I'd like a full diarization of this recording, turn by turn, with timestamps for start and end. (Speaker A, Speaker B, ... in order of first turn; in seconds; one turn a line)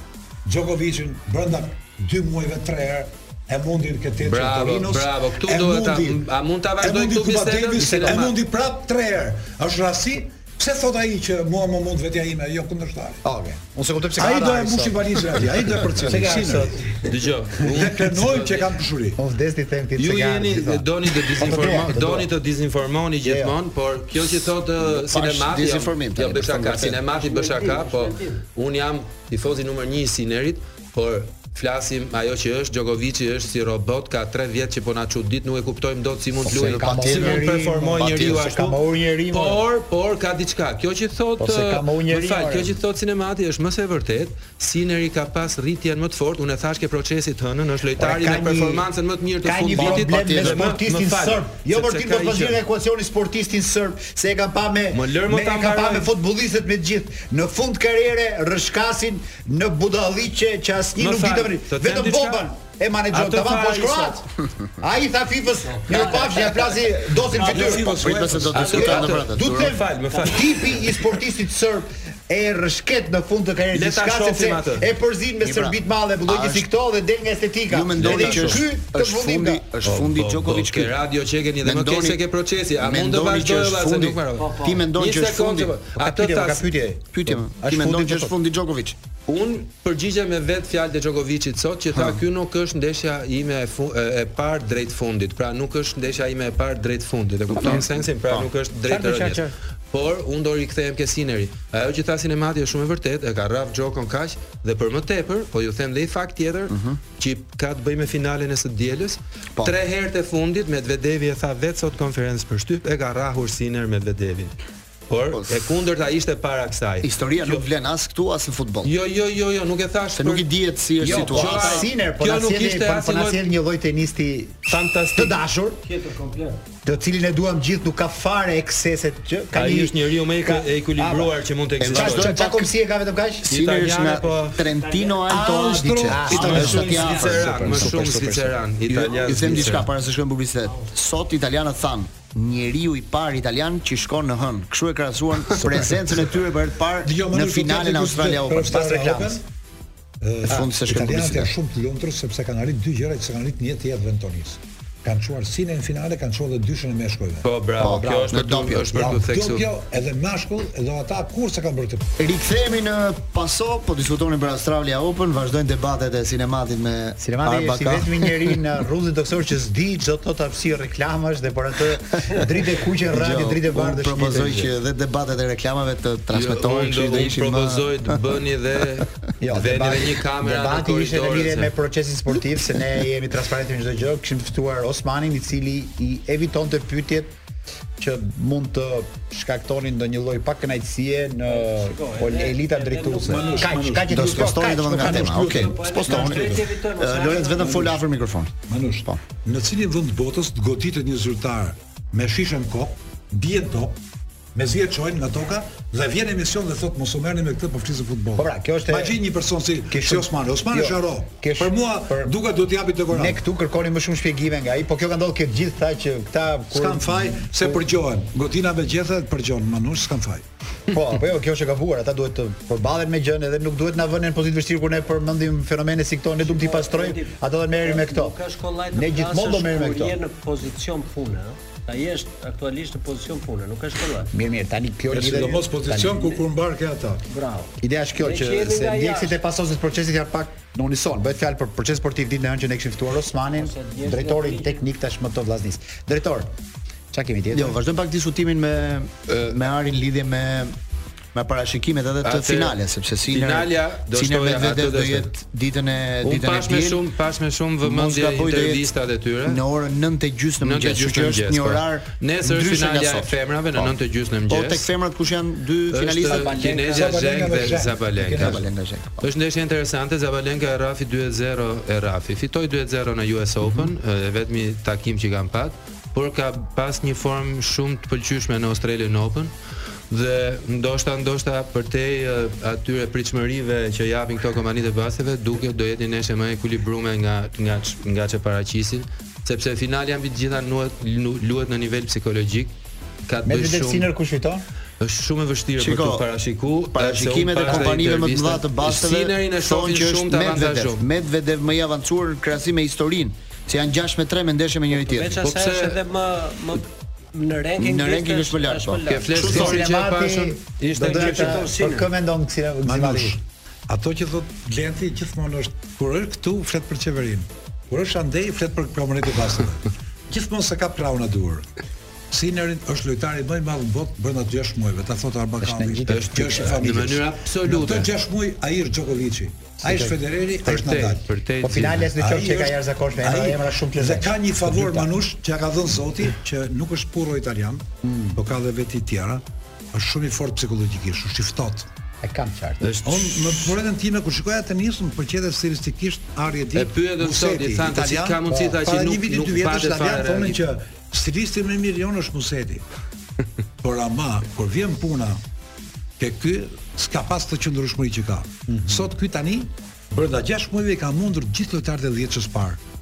Speaker A: 0.5-6.2
Speaker B: 4.2-8.3
Speaker A: 6.8-13.2
Speaker C: 7.8-8.2
Speaker C: 13.2-16.9
Speaker A: 14.2-16.8
Speaker B: 17.0-18.8
Speaker A: 17.6-19.2
Speaker C: 19.2-22.3
Speaker B: 20.0-38.8
Speaker C: 23.2-23.5
Speaker D: 24.8-27.0
Speaker E: 27.1-28.4
Speaker D: 36.4-37.5
Speaker C: 36.5-39.6
Speaker B: 39.3-52.6
Speaker C: 41.4-42.8
Speaker C: 48.0-48.8
Speaker C: 49.4-64.2
Speaker D: 49.7-50.8
Speaker B: 54.9-56.1
Speaker B: 61.0-62.5
Speaker B: 63.1-64.2
Speaker C: 64.8-67.9
Speaker E: 65.6-66.8
Speaker E: 67.3-69.1
Speaker A: 67.4-68.7
Speaker D: 67.8-69.8
Speaker B: 68.5-70.8
Speaker C: 68.7-79.6
Speaker B: 73.7-74.9
Speaker D: 75.4-76.7
Speaker D: 77.7-80.9
Speaker B: 78.0-78.6
Speaker B: 79.8-86.7
Speaker D: 81.6-82.2
Speaker D: 82.8-85.7
Speaker E: 84.3-84.8
Speaker C: 86.0-88.3
Speaker D: 87.1-89.0
Speaker B: 89.3-114.5
Speaker D: 91.9-92.2
Speaker D: 97.5-98.5
Speaker C: 98.7-99.5
Speaker D: 106.7-107.0
Speaker B: 115.1-117.6
Speaker D: 115.3-115.6
Speaker D: 117.0-118.9
Speaker B: 118.8-123.5
Speaker D: 120.1-121.9
Speaker C: 121.0-125.8
Speaker B: 124.7-125.4
Speaker E: 125.8-126.6
Speaker C: 126.8-133.5
Speaker B: 129.5-132.4
Speaker D: 131.8-132.7
Speaker D: 133.5-138.0
Speaker B: 133.5-134.6
Speaker E: 134.6-135.3
Speaker C: 135.3-139.2
Speaker A: 135.3-137.0
Speaker B: 136.3-139.9
Speaker E: 139.0-139.5
Speaker D: 139.1-148.7
Speaker A: 147.0-149.4
Speaker C: 148.6-149.4
Speaker A: 150.2-157.5
Speaker D: 150.4-151.5
Speaker B: 157.4-159.7
Speaker D: 157.8-158.9
Speaker C: 158.0-158.3
Speaker A: 158.9-162.1
Speaker D: 162.2-168.6
Speaker C: 167.2-174.7
Speaker D: 173.1-178.2
Speaker B: 176.3-181.7
Speaker C: 179.4-187.3
Speaker C: 188.0-195.4
Speaker E: 191.4-193.7
Speaker A: 193.2-196.7
Speaker D: 194.1-198.5
Speaker E: 195.4-197.9
Speaker A: 197.6-198.0
Speaker A: 198.7-204.0
Speaker A: 204.5-213.4
Speaker C: 208.4-209.2
Speaker C: 209.9-212.3
Speaker C: 213.1-217.8
Speaker A: 216.7-220.4
Speaker C: 220.9-228.4
Speaker E: 226.4-234.3
Speaker C: 228.9-230.2
Speaker C: 234.3-236.3
Speaker A: 235.1-237.2
Speaker E: 237.3-239.4
Speaker C: 237.8-246.5
Speaker E: 243.6-244.8
Speaker C: 247.1-247.8
Speaker D: 247.5-250.8
Speaker D: 251.3-257.0
Speaker B: 252.2-252.8
Speaker B: 253.3-255.3
Speaker B: 256.2-259.6
Speaker D: 257.8-258.9
Speaker D: 259.4-266.6
Speaker B: 260.6-264.9
Speaker B: 265.9-268.6
Speaker C: 266.2-267.2
Speaker A: 266.7-268.6
Speaker D: 268.3-269.2
Speaker B: 269.2-279.5
Speaker B: 280.1-292.7
Speaker B: 293.2-294.1
Speaker C: 293.4-294.6
Speaker B: 295.0-301.0
Speaker D: 295.8-296.2
Speaker D: 296.9-305.4
Speaker E: 304.9-309.4
Speaker B: 305.4-306.0
Speaker D: 307.8-309.8
Speaker B: 309.1-311.7
Speaker C: 309.4-313.4
Speaker E: 310.9-312.1
Speaker A: 312.8-321.6
Speaker A: 322.3-331.3
Speaker C: 325.6-326.9
Speaker B: 326.1-328.1
Speaker C: 329.8-330.2
Speaker B: 330.6-332.1
Speaker C: 331.6-335.1
Speaker A: 331.8-337.8
Speaker C: 338.0-338.4
Speaker A: 338.4-341.9
Speaker C: 342.2-342.9
Speaker B: 342.8-343.7
Speaker A: 343.0-352.9
Speaker B: 346.7-350.6
Speaker A: 353.8-355.4
Speaker A: 356.2-362.8
Speaker C: 358.7-359.1